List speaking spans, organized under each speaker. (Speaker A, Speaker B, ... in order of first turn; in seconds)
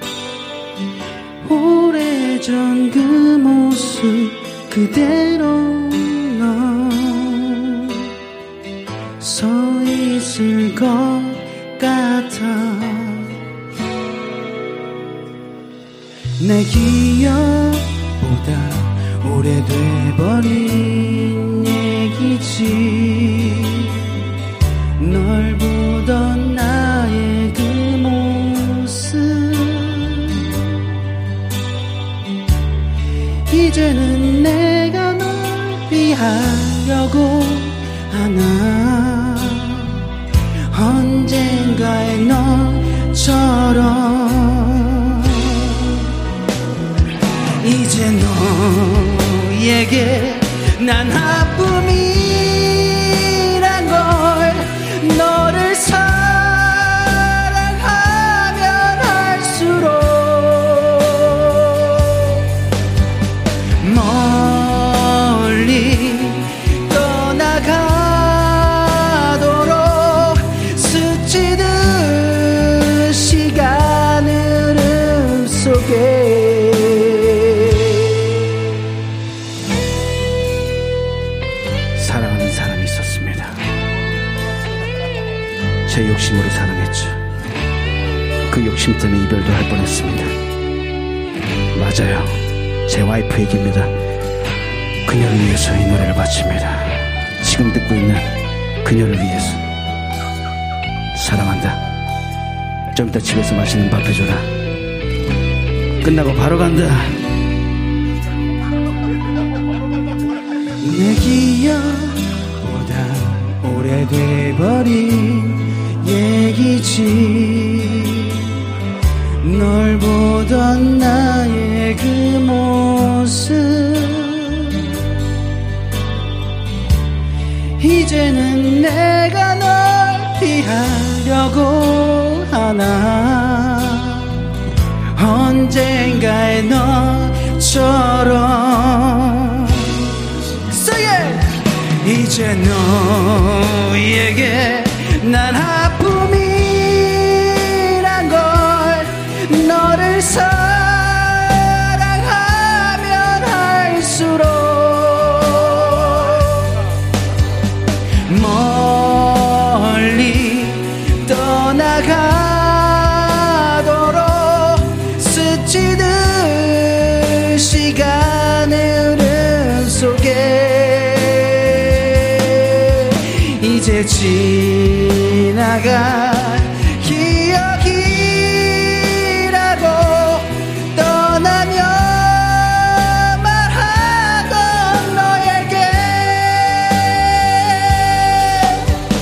Speaker A: 1.4-8.0, 9.2-13.3, 16.4-23.9, 25.0-30.5, 33.5-39.9, 40.7-46.0, 47.6-62.4, 63.8-78.1, 82.0-83.6, 85.9-87.2, 88.5-90.3, 91.7-92.3, 92.9-93.9, 95.0-98.3, 98.8-99.6, 101.1-101.8, 102.9-104.5, 106.0-107.3, 110.8-118.4, 119.4-124.9, 127.8-134.3, 135.2-139.9, 140.6-156.8, 158.2-188.8